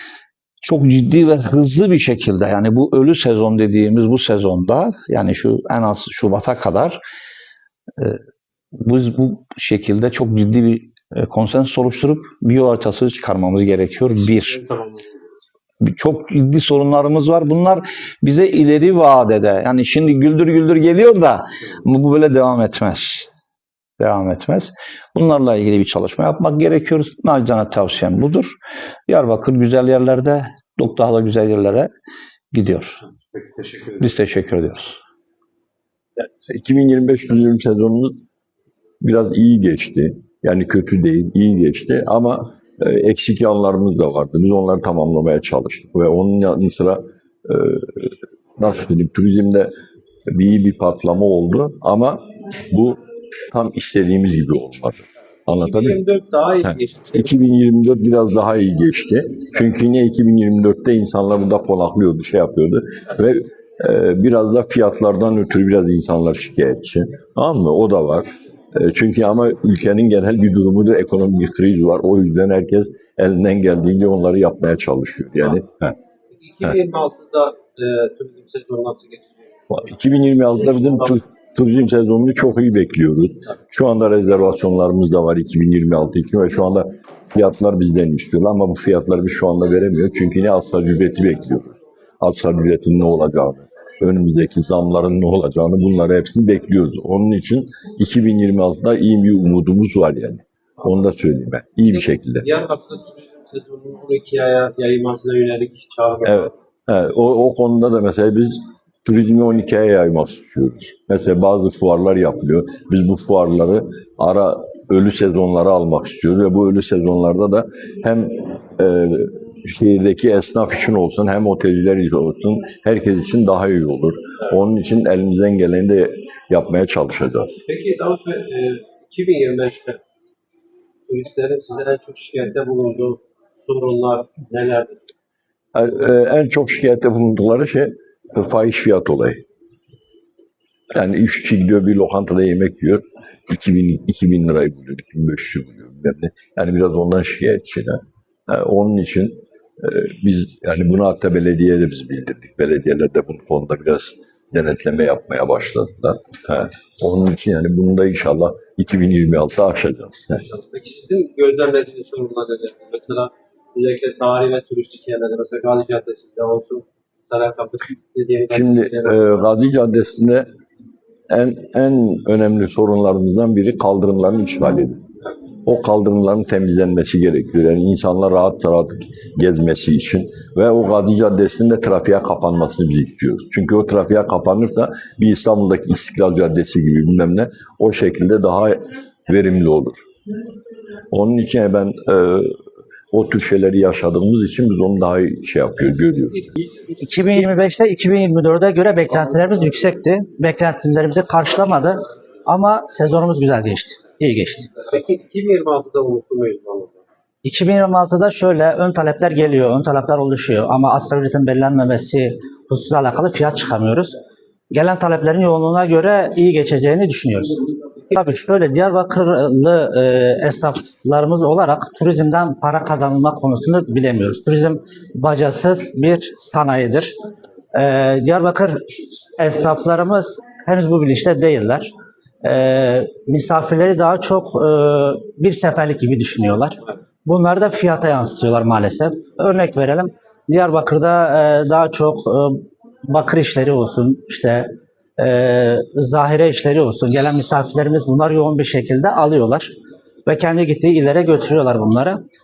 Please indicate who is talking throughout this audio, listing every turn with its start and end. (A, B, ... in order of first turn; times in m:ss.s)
0:00.6-0:07.0 A
0:08.8-0:14.6 A
0:14.6-0:15.1 B
0:15.8-0:23.3 A
0:24.0-0:31.9 A
0:32.5-0:33.0 A
0:33.3-0:33.6 B
0:33.9-0:35.0 A
0:36.2-0:38.2 C
0:39.0-0:49.7 C
0:50.3-0:53.0 C
0:53.5-0:56.0 C
0:55.6-0:57.3 B
0:56.6-1:16.0 C
1:16.4-1:19.5 B
1:19.7-1:42.5 C
1:41.9-1:46.5 B
1:46.2-2:07.6 C
2:07.7-2:10.0 B
2:11.1-2:15.0 B
2:15.7-2:19.4 C
2:20.9-2:40.5 C
2:40.5-2:49.4 B
2:48.5-2:50.5 C
2:51.3-2:55.0 C
2:55.6-3:10.0 C
3:11.1-3:12.6 C
3:13.1-3:16.5 C
3:17.0-3:24.7 D
3:24.8-3:27.0 B
3:27.4-3:34.2 D
3:34.7-3:47.2 D
3:47.7-3:51.9 D
3:52.4-4:09.7 D
4:10.3-4:12.2 D